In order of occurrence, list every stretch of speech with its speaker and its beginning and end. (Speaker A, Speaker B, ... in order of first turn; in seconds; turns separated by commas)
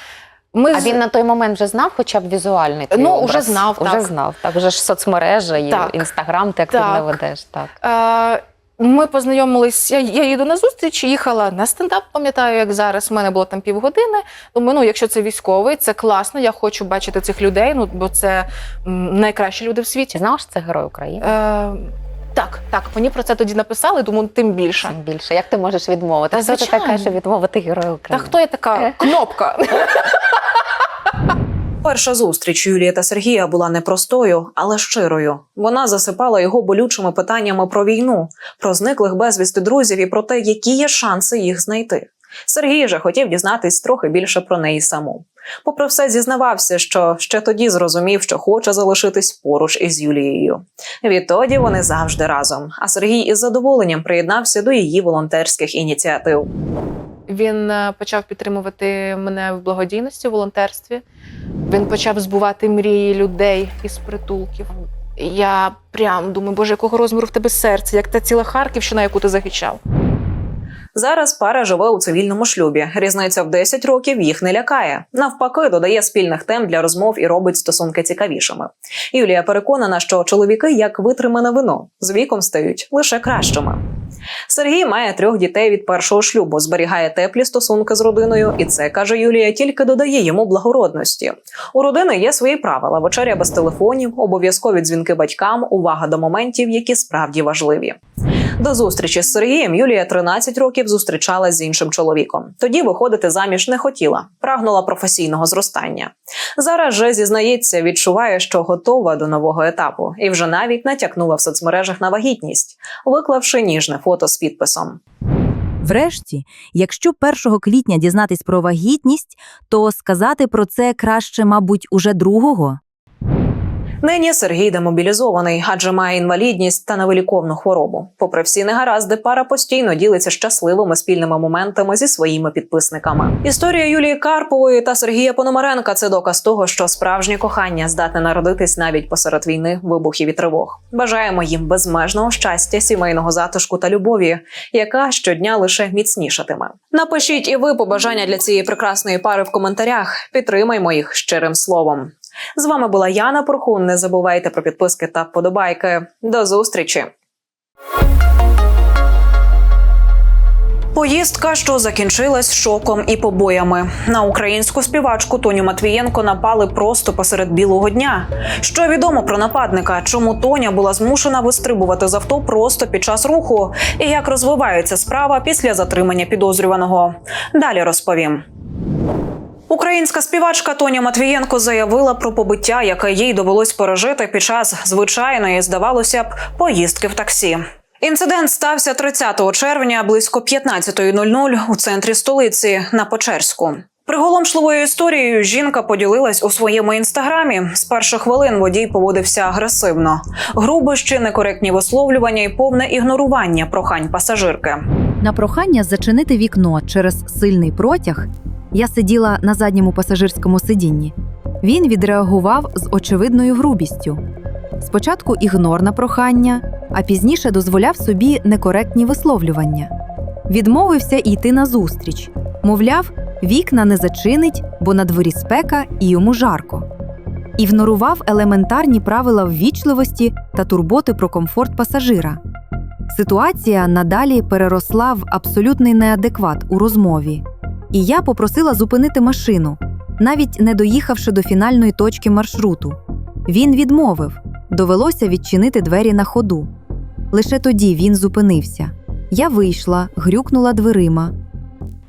Speaker A: 0.5-1.0, Speaker B: 0.7-7.7, Speaker A: 2.9-4.1, Speaker A: 5.7-6.1, Speaker A: 6.7-7.2, Speaker A: 7.8-20.2, Speaker B: 20.1-21.3, Speaker A: 21.2-24.9, Speaker B: 24.9-28.8, Speaker A: 26.3-27.2, Speaker A: 28.1-30.4, Speaker C: 31.8-56.5, Speaker A: 57.3-61.0, Speaker A: 61.7-69.8, Speaker C: 70.9-83.8, Speaker C: 84.5-98.0, Speaker C: 98.6-115.0, Speaker D: 115.8-122.8, Speaker C: 124.0-157.1, Speaker C: 160.9-178.4, Speaker C: 179.7-204.8, Speaker D: 205.2-214.2, Speaker D: 214.8-219.9, Speaker D: 220.5-226.9, Speaker D: 227.6-232.4, Speaker D: 233.1-246.7, Speaker D: 247.3-251.3